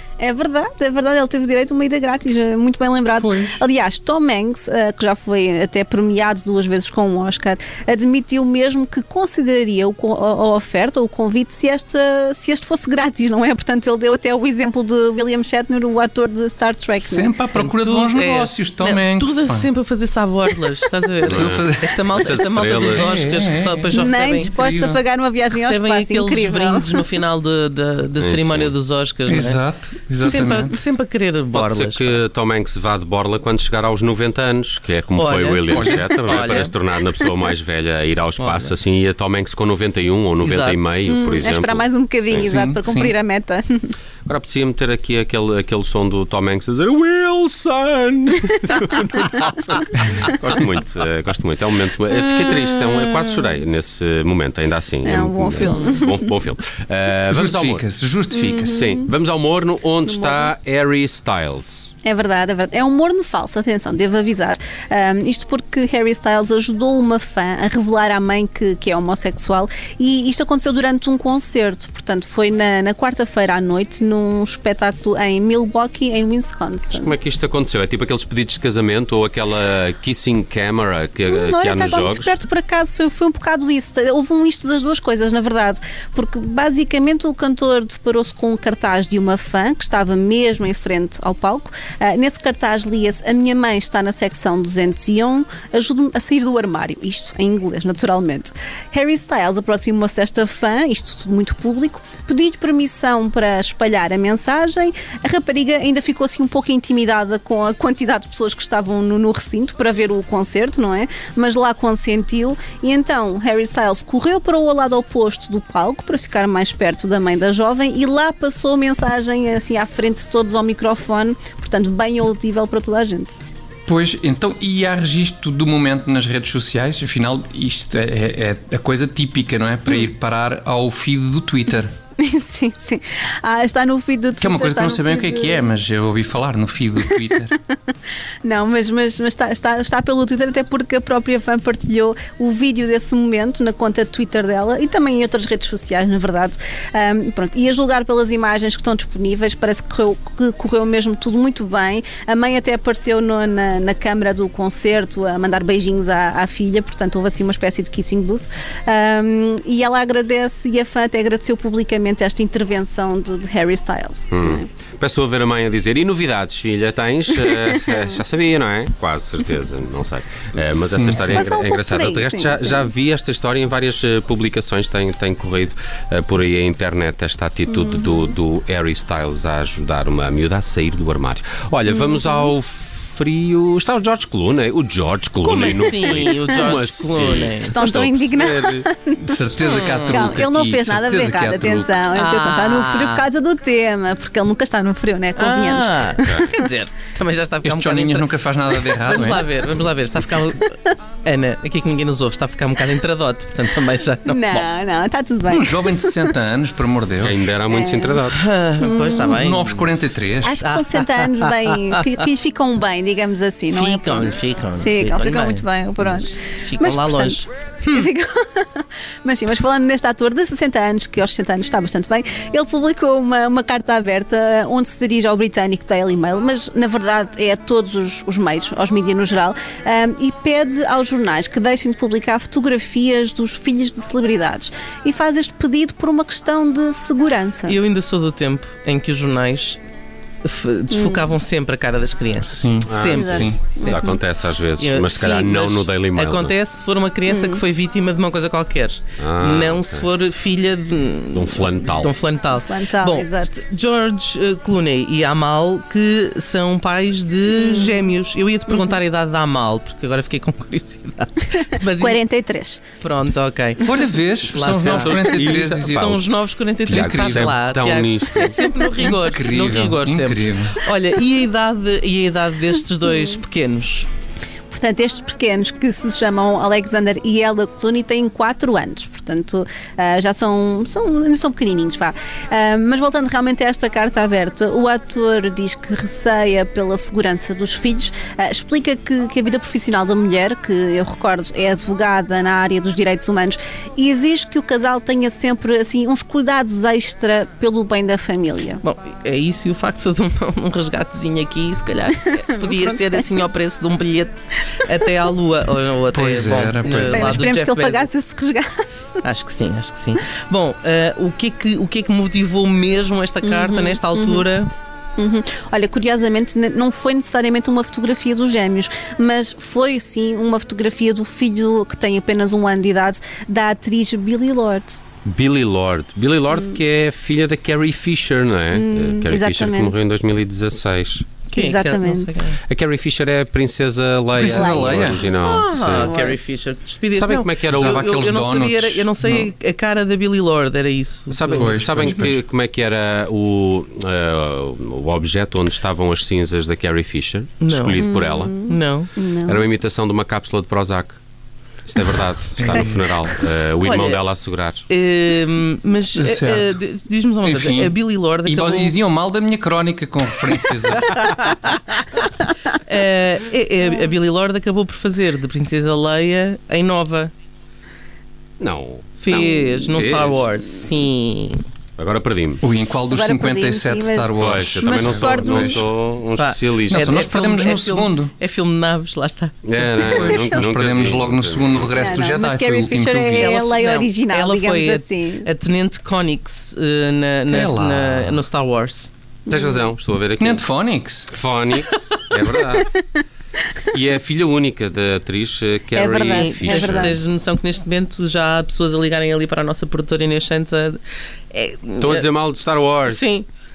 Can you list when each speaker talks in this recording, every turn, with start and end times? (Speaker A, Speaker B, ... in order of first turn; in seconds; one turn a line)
Speaker A: 0.2-17.3
Speaker B: 3.1-3.6
Speaker B: 17.0-19.7
Speaker C: 17.5-24.5
Speaker D: 21.2-21.6
Speaker B: 21.3-25.0
Speaker D: 22.1-23.1
Speaker A: 23.9-27.0
Speaker C: 25.5-29.6
Speaker D: 28.2-28.7
Speaker B: 29.3-30.8
Speaker C: 30.2-32.2
Speaker D: 31.5-42.5
Speaker C: 35.1-36.7
Speaker B: 35.7-36.0
Speaker C: 38.4-38.7
Speaker C: 40.4-41.0
Speaker A: 41.0-43.9
Speaker B: 42.4-43.1
Speaker D: 44.2-57.9
Speaker C: 52.2-53.2
Speaker A: 55.0-56.3
Speaker B: 57.3-58.9
Speaker A: 58.3-59.1
Speaker D: 58.6-61.9
Speaker A: 60.0-60.5
Speaker A: 62.0-77.1
Speaker D: 76.9-82.3
Speaker A: 81.3-123.4
Speaker B: 123.9-131.9
Speaker A: 132.2-135.7
Speaker B: 134.4-137.5
Speaker A: 138.4-164.7
Speaker D: 164.3-188.9
Speaker B: 170.7-171.5
Speaker A: 171.2-172.9
Speaker A: 177.7-178.3
Speaker A: 181.9-182.5
Speaker C: 185.5-187.8
Speaker A: 185.6-186.5
Speaker A: 187.6-196.7
Speaker B: 189.2-192.0
Speaker C: 189.6-190.3
Speaker C: 192.1-193.2
Speaker C: 195.4-204.7
Speaker D: 196.2-196.5
Speaker B: 197.6-199.4
Speaker A: 204.3-206.3
Speaker B: 205.5-207.4
Speaker D: 207.2-208.4
Speaker A: 207.7-208.2
Speaker C: 208.3-209.9
Speaker A: 208.8-209.3
Speaker B: 209.1-210.6
Speaker A: 210.4-237.8
Speaker C: 210.6-211.6
Speaker C: 213.7-218.1
Speaker C: 237.7-239.8
Speaker C: 240.4-244.0
Speaker A: 240.9-241.2
Speaker B: 242.4-243.6
Speaker D: 242.9-246.5
Speaker A: 243.2-244.2
Speaker C: 244.8-262.2
Speaker A: 247.3-247.6
Speaker D: 249.2-250.1
Speaker D: 251.3-252.1
Speaker A: 252.5-253.7
Speaker A: 257.5-258.0
Speaker A: 262.0-262.8
Speaker C: 263.0-274.1
Speaker B: 263.8-266.2
Speaker D: 264.6-266.2
Speaker B: 266.9-267.5
Speaker D: 266.9-268.6
Speaker B: 269.1-270.8
Speaker A: 274.7-298.8
Speaker C: 298.8-308.1
Speaker A: 302.3-303.3
Speaker B: 306.1-307.4
Speaker A: 307.1-308.7
Speaker C: 309.2-314.7
Speaker A: 313.4-314.4
Speaker A: 315.2-325.0
Speaker D: 325.2-331.3
Speaker A: 328.7-330.1
Speaker C: 331.5-332.6
Speaker A: 331.5-332.4
Speaker D: 332.6-336.1
Speaker B: 334.4-335.2
Speaker A: 334.4-335.1
Speaker C: 335.3-342.2
Speaker A: 335.8-336.5
Speaker D: 337.1-338.1
Speaker B: 337.7-339.5
Speaker D: 341.3-348.6
Speaker B: 341.5-342.4
Speaker C: 347.6-348.0
Speaker A: 348.0-349.6
Speaker C: 348.5-349.1
Speaker D: 349.4-351.2
Speaker D: 351.9-354.8
Speaker B: 352.6-352.9
Speaker C: 353.8-354.2
Speaker C: 354.9-359.0
Speaker B: 356.1-356.8
Speaker B: 357.4-361.1
Speaker C: 361.1-361.8
Speaker C: 362.9-367.3
Speaker D: 368.6-370.5
Speaker C: 369.2-371.6
Speaker D: 372.0-372.6
Speaker B: 372.6-375.8
Speaker A: 373.1-375.8
Speaker D: 374.4-377.2
Speaker C: 376.4-380.1
Speaker B: 376.9-378.3
Speaker D: 379.6-382.1
Speaker B: 379.8-383.5
Speaker A: 381.9-385.5
Speaker C: 383.3-389.1
Speaker B: 387.5-388.4
Speaker A: 389.5-389.8
Speaker D: 389.5-390.6
Speaker B: 390.4-391.3
Speaker D: 391.3-392.9
Speaker D: 393.9-397.2
Speaker A: 395.9-397.2
Speaker C: 396.2-401.0
Speaker C: 401.5-402.3
Speaker D: 402.0-403.2
Speaker C: 403.0-403.5